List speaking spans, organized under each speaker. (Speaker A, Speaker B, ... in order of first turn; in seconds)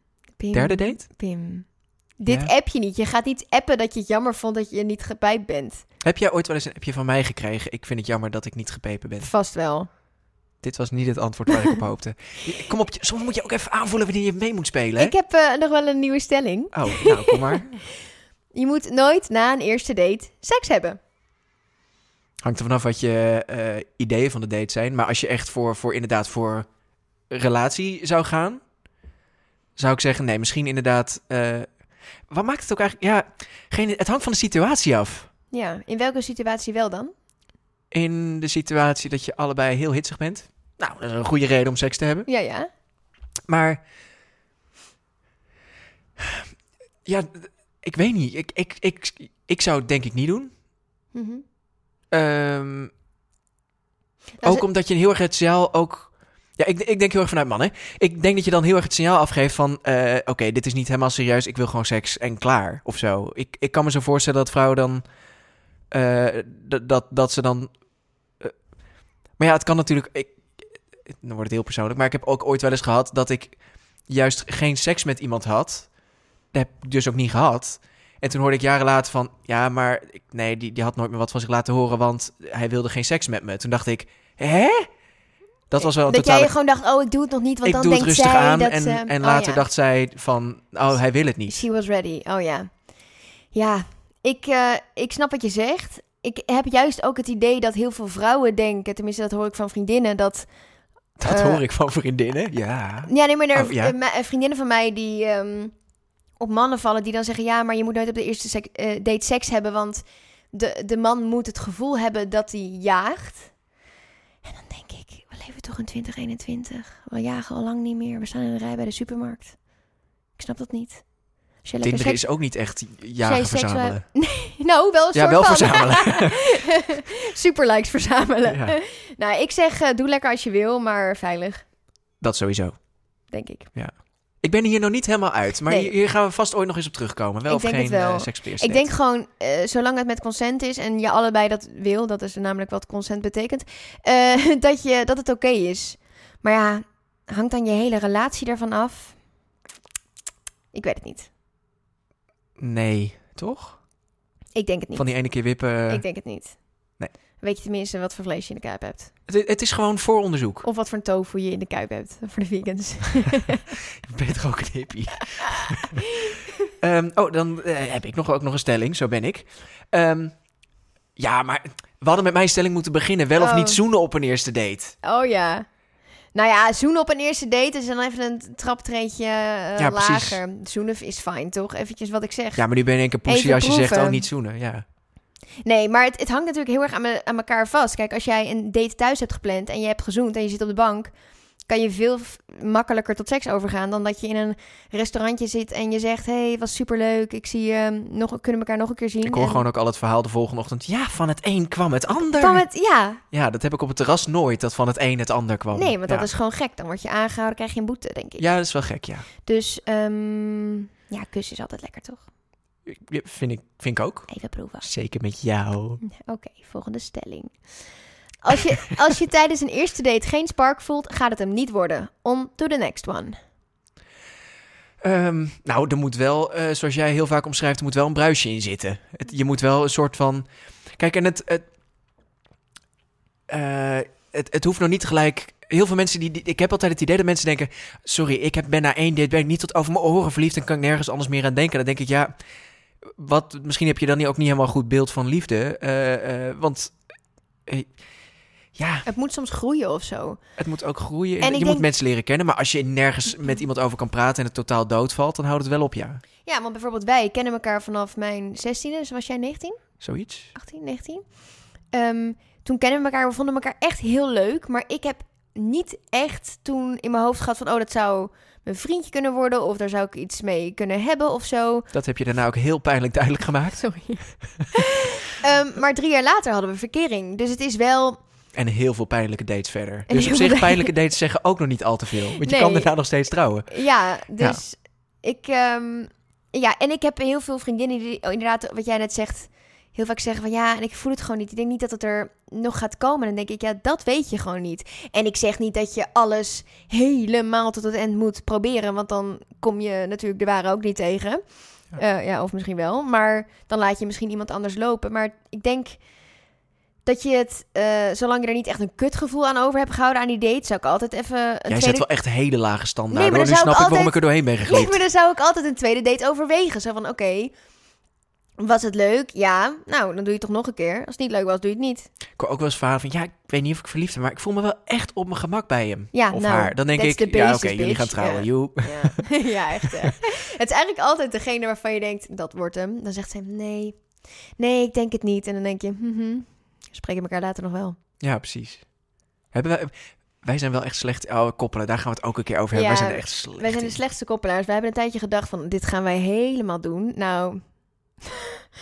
Speaker A: 0.4-1.7, 2.2-5.8, 9.2-9.9, 15.0-17.6, 18.5-21.0, 35.5-37.1, 42.3-42.7, 51.1-51.4, 54.4-54.6, 85.8-89.6, 91.5-92.7, 93.5-100.5, 101.2-101.6, 103.1-105.7, 106.4-113.5, 114.4-119.6, 120.4-121.0, 121.6-122.2, 123.2-131.7, 133.3-133.7, 135.7-135.9, 137.5-149.2, 150.7-151.3, 154.6-155.1, 155.9-156.6, 157.4-159.1, 160.6-163.8, 165.3-166.5, 173.4-173.8, 175.0-175.7, 176.3-182.7, 183.3-184.2, 185.6-191.1, 191.7-199.7, 202.3-203.2, 205.7-208.5, 209.4-212.2, 214.3-214.9, 216.0-217.6, 218.4-223.4, 249.1-250.4, 251.4-251.9, 256.4-259.8, 260.5-261.3, 261.9-271.9, 273.8-278.2, 280.1-280.9, 282.4-282.9, 283.7-306.0, 307.1-312.1, 313.1-317.6, 318.6-322.1, 326.1-334.0, 334.6-338.0, 342.7-347.7
Speaker B: 0.5-1.0, 6.0-9.3, 10.6-15.1, 16.7-17.8, 22.4-26.7, 27.3-28.6, 29.8-31.7, 32.3-35.3, 37.9-42.3, 43.5-43.8, 46.2-46.5, 47.0-50.5, 52.1-52.9, 54.4-65.0, 65.9-67.7, 69.4-73.6, 74.1-75.9, 76.5-84.9, 85.7-86.5, 87.6-91.6, 101.2-104.0, 121.8-124.0, 125.1-126.4, 128.5-128.8, 132.2-132.8, 133.8-138.9, 152.6-153.8, 155.0-156.0, 159.3-160.7, 164.0-166.1, 166.8-170.3, 171.2-175.0, 179.8-180.4, 182.6-184.8, 199.2-202.7, 203.3-206.3, 208.4-209.3, 212.9-214.3, 214.8-216.0, 225.0-231.7, 233.5-242.3, 243.2-247.0, 248.8-249.1, 250.6-256.2, 260.0-260.5, 271.9-273.9, 278.6-283.8, 311.7-315.0, 322.4-329.2, 329.8-330.2, 338.2-338.9, 339.5-344.0